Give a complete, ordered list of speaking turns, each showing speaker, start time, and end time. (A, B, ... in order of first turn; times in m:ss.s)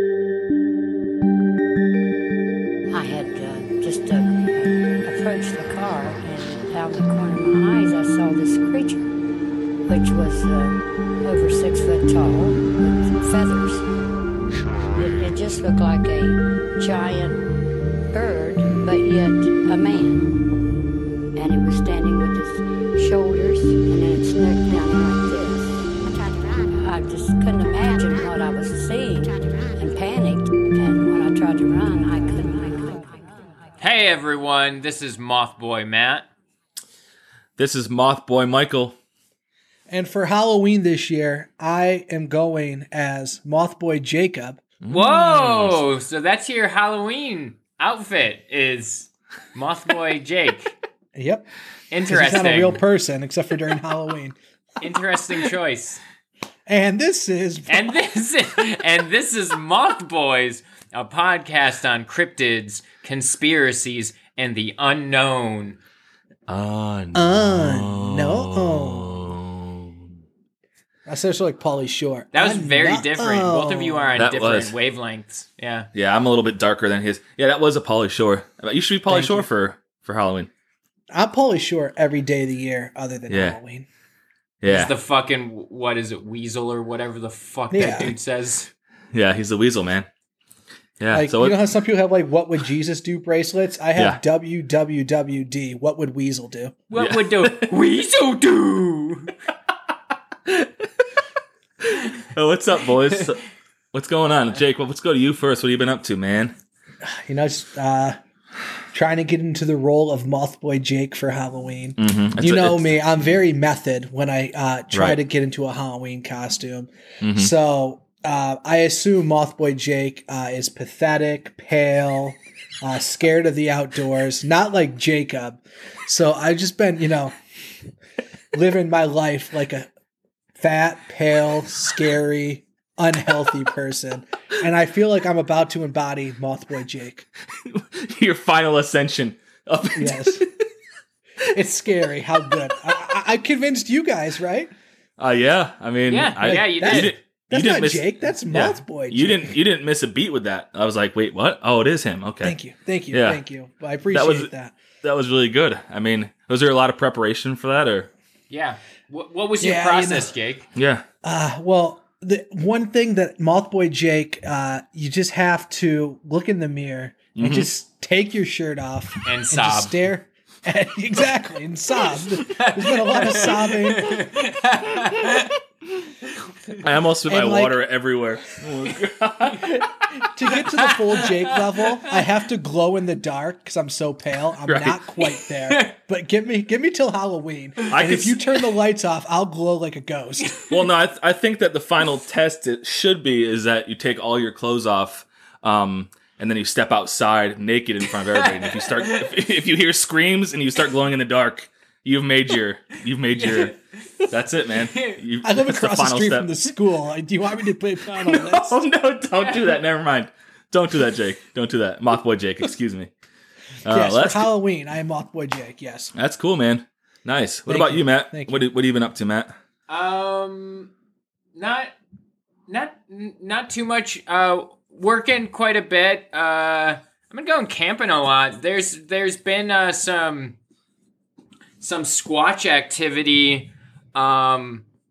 0:02.9-0:09.0 A
0:09.9-0:13.8 A
0:14.9-0:17.4 A
0:18.1-0:20.3 A
0:21.4-0:33.3 A
0:33.8-0:36.3 B
0:37.6-0:39.0 C
0:39.9-0:44.7 D
0:44.8-0:45.8 C
0:44.9-0:50.8 B
0:51.2-0:51.5 D
0:51.9-0:52.8 B
0:52.0-0:54.4 D
0:54.8-0:56.0 B
0:56.7-0:58.0 D
0:57.7-1:05.8 B
1:06.5-1:10.1 C
1:07.2-1:09.3 D
1:11.1-1:14.2 D
1:12.3-1:15.9 B
1:14.2-1:14.8 C
1:15.9-1:20.5 C
1:19.1-1:19.5 D
1:21.1-1:23.9 D
1:23.3-1:23.6 C
1:24.6-1:24.9 C
1:24.7-1:28.7 B
1:27.7-1:28.1 D
1:29.1-1:30.1 C
1:31.0-1:31.7 C
1:31.1-1:36.8 D
1:34.0-1:34.2 C
1:36.9-1:39.3 B
1:37.0-1:37.7 C
1:41.8-1:43.4 C
1:43.9-1:46.5 C
1:47.0-1:48.2 D
1:48.9-2:07.4 D
1:52.0-1:52.9 C
1:54.9-1:55.2 C
1:57.2-1:57.5 C
2:08.5-2:09.9 D
2:10.6-2:17.3 D
2:17.7-2:20.7 C
2:20.0-2:20.4 D
2:21.5-2:24.7 D
2:25.2-2:32.6 C
2:26.1-2:27.2 B
2:26.4-2:29.6 D
2:32.4-2:34.8 D
2:33.1-2:33.4 C
2:34.1-2:34.5 C
2:35.0-2:38.1 C
2:38.5-2:40.7 B
2:39.6-2:40.3 D
2:40.8-2:41.0 C
2:41.2-2:54.2 D
2:47.4-2:47.7 C
2:49.3-2:49.9 B
2:52.5-2:55.5 B
2:56.8-3:00.3 C
2:57.3-2:57.8 D
3:00.3-3:10.6 D
3:00.8-3:02.1 B
3:04.7-3:05.0 C
3:05.7-3:06.0 B
3:07.9-3:08.5 C
3:10.7-3:23.8 C
3:18.3-3:19.3 B
3:23.4-3:23.8 B
3:24.3-3:26.7 C
3:24.8-3:25.2 B
3:25.4-3:28.8 D
3:28.1-3:33.1 C
3:33.8-3:34.5 C
3:33.9-3:36.1 D
3:36.2-3:39.5 C
3:37.7-3:38.6 D
3:39.9-3:40.9 B
3:41.6-3:41.9 B
3:42.7-3:50.6 B
3:51.8-3:54.8 B